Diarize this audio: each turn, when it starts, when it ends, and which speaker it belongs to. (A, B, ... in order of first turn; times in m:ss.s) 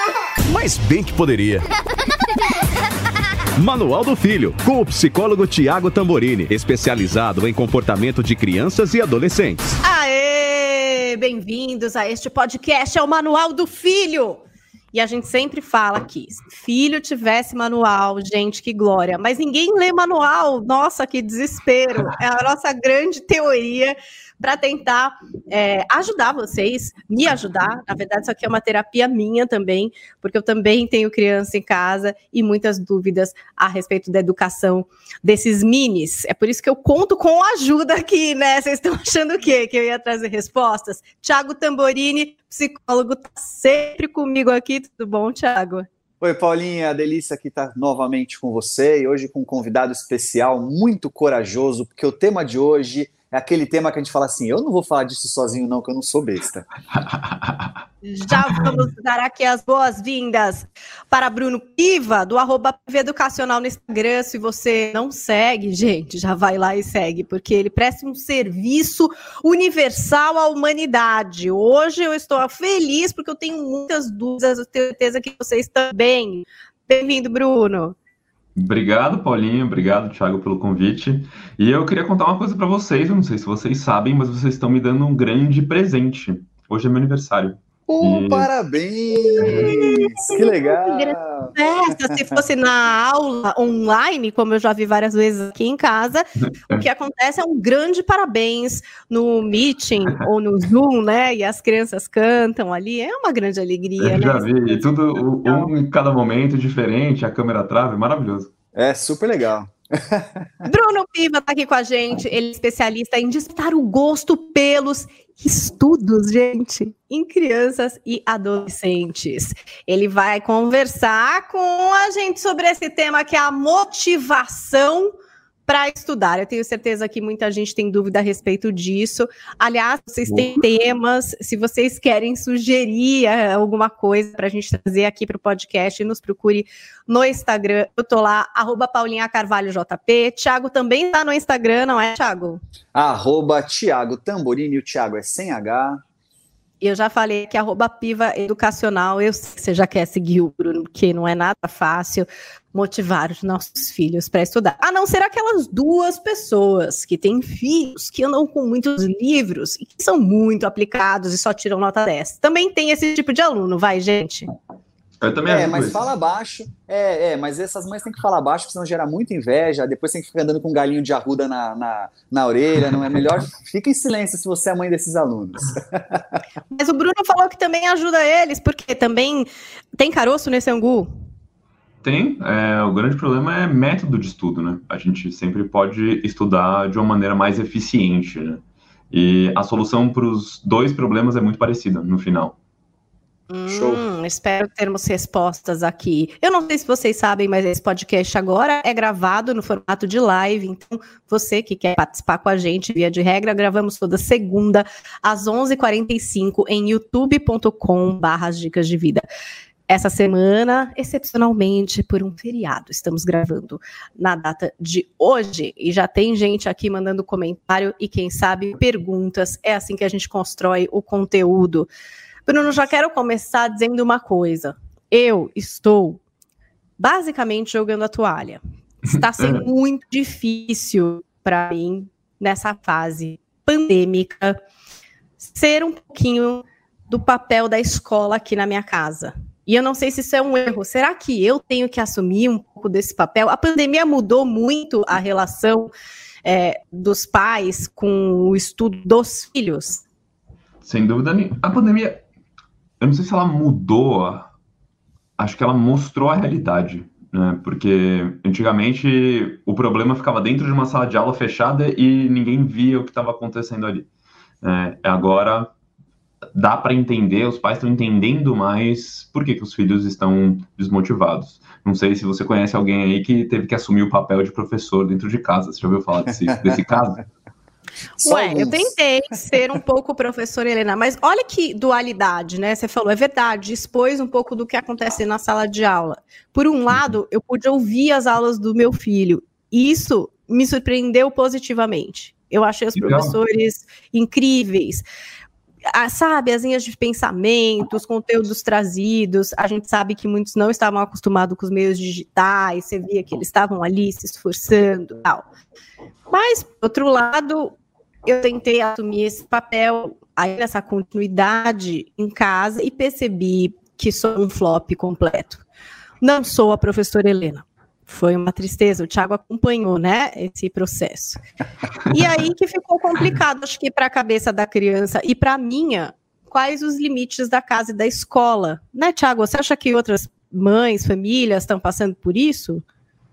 0:00.4-0:01.6 A
0:03.6-0:09.7 A
0:09.8-0:14.4 B
0:14.9-0:45.8 B
0:46.2-0:56.6 C
0:57.0-0:57.7 D
0:58.0-1:17.9 B
0:58.4-0:58.8 D
1:18.6-1:28.5 D
1:27.9-1:31.5 C
1:29.3-1:45.7 B
1:29.4-1:29.7 D
1:32.1-1:32.4 C
1:36.4-1:36.8 D
1:44.0-1:48.5 D
1:48.7-1:50.6 C
1:50.6-2:05.1 B
2:05.7-2:22.6 B
2:22.9-2:26.0 C
2:26.8-2:44.5 B
2:45.2-2:46.1 D
2:45.5-2:56.3 C
2:56.7-2:59.5 B
3:00.0-3:01.1 B
3:02.0-3:12.6 D
3:13.5-3:29.2 B
3:13.7-3:14.0 C
3:29.9-3:41.9 B
3:42.4-3:46.2 B
3:47.0-3:54.6 B
3:49.4-3:49.6 D
3:55.4-4:05.9 B
4:06.4-4:10.0 B
4:10.8-4:12.2 D
4:13.0-4:14.5 D
4:15.4-4:24.1 D
4:24.6-4:25.7 D
4:26.5-4:37.2 D
4:38.2-4:55.0 B
4:38.2-4:38.9 C
4:52.9-4:53.4 D
4:55.8-5:05.4 B
5:06.3-5:07.7 B
5:08.2-5:15.6 B
5:16.2-5:21.4 B
5:22.1-5:32.8 B